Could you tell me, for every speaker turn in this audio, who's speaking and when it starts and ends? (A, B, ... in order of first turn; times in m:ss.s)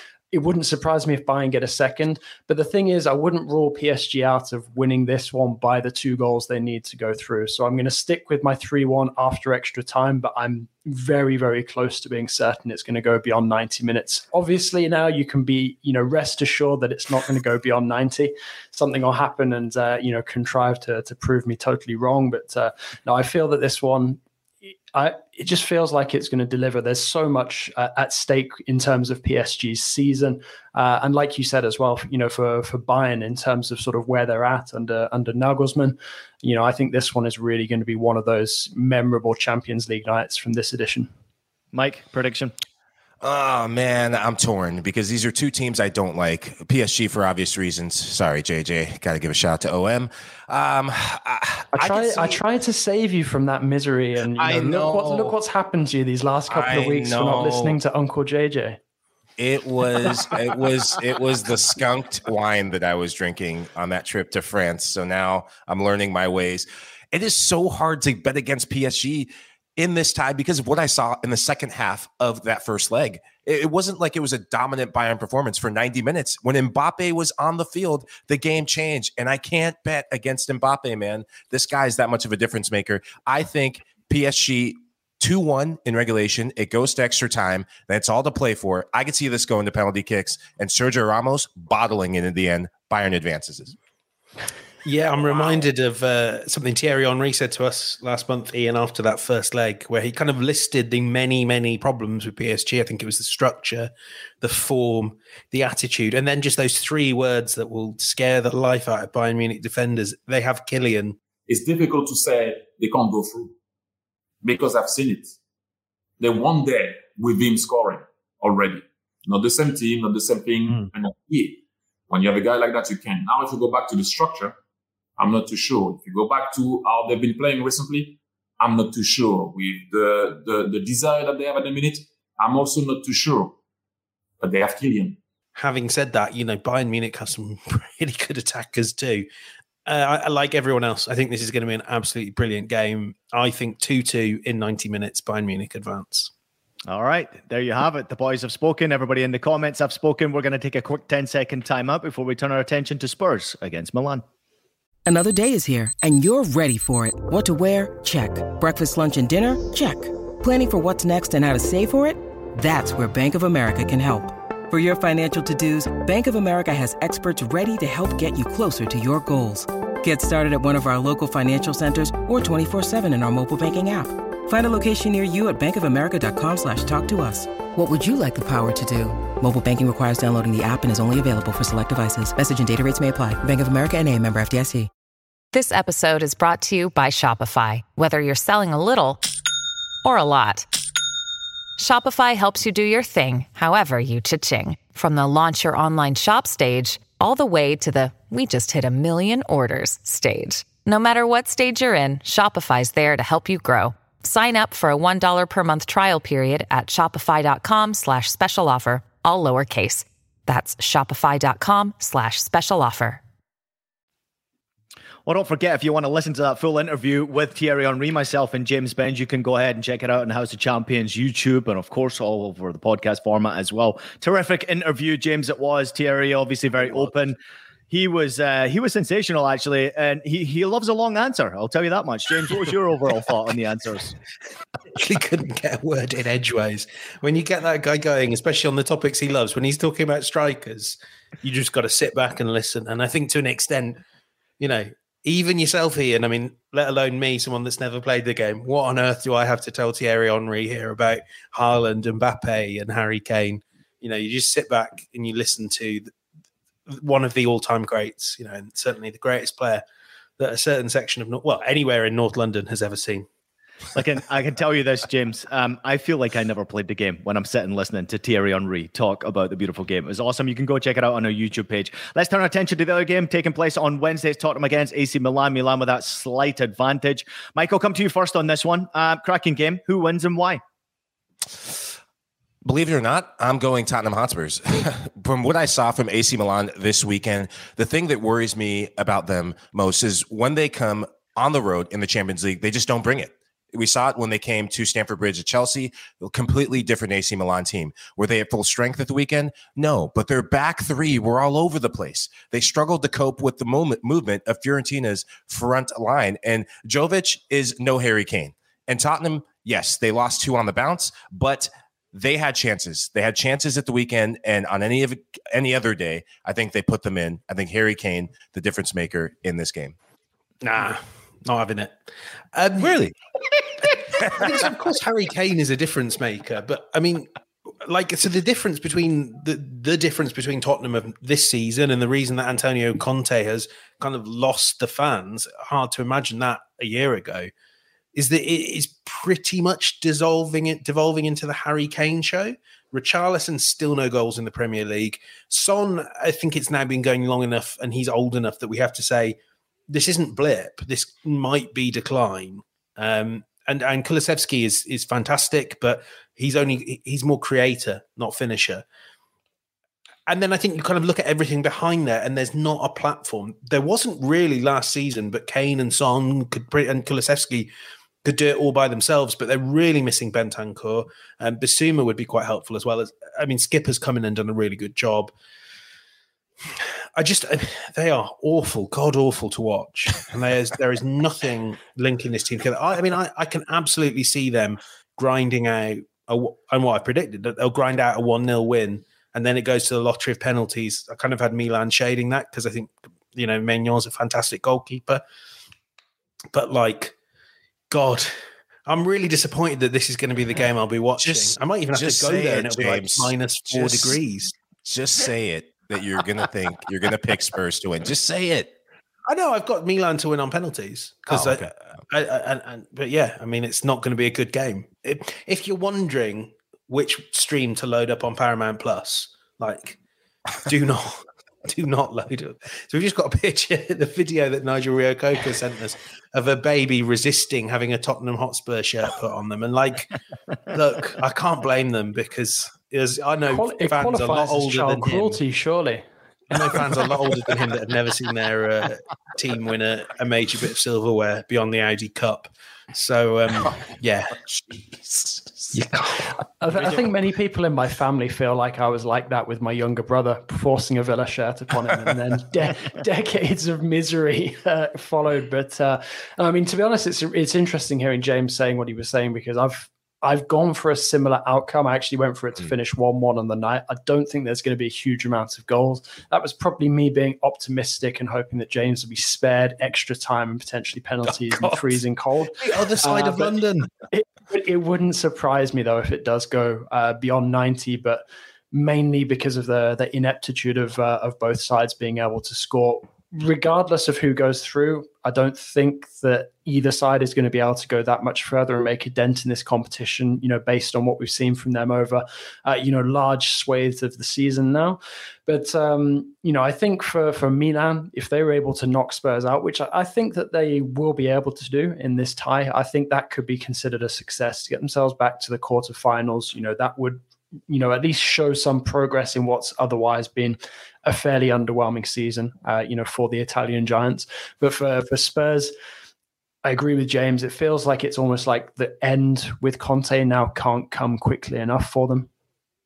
0:00.3-0:24.2 A
0:24.9-0:41.1 A
0:41.7-0:42.5 B
0:43.2-0:52.4 C
0:51.8-0:58.8 A
0:54.4-0:55.3 C
0:56.5-0:57.8 C
0:59.4-1:33.8 C
1:34.8-1:51.2 D
1:35.3-1:35.6 C
1:51.5-1:53.6 E
1:54.4-1:55.3 E
1:56.2-2:04.6 E
2:05.2-2:13.6 E
2:14.4-2:15.2 E
2:15.6-2:19.3 D
2:19.9-2:26.3 D
2:26.9-2:34.2 B
2:35.1-3:04.9 F
3:05.5-3:09.2 G
3:10.0-3:10.7 G
3:11.8-3:33.2 G
3:35.3-3:47.4 B
3:47.9-3:54.1 B
3:55.0-4:04.0 D
4:04.6-4:16.1 D
4:16.9-4:19.8 D
4:20.4-4:23.3 D
4:24.0-4:40.6 B
4:41.6-4:41.9 C
4:42.6-5:20.0 C
5:20.6-5:22.0 D
5:22.5-5:23.0 D
5:22.8-5:23.2 C
5:24.0-5:24.5 C
5:24.2-5:27.3 D
5:27.8-5:37.5 D
5:38.2-5:49.4 D
5:49.9-5:58.8 D
6:00.3-6:07.7 D
6:08.2-6:15.3 D
6:16.7-6:35.2 D
6:36.5-6:37.2 D
6:37.9-6:38.3 D
6:38.9-6:44.5 D
6:41.2-6:44.2 C
6:44.8-6:48.7 C
6:49.3-7:00.0 D
6:51.3-6:51.7 C
7:00.7-7:10.2 D
7:10.7-7:15.4 D
7:13.5-7:16.0 A
7:16.5-7:24.4 D
7:25.7-7:26.3 D
7:26.6-7:53.6 A
7:51.4-7:52.0 D
7:52.6-7:53.9 D
7:54.1-8:35.7 A
8:36.6-8:42.3 A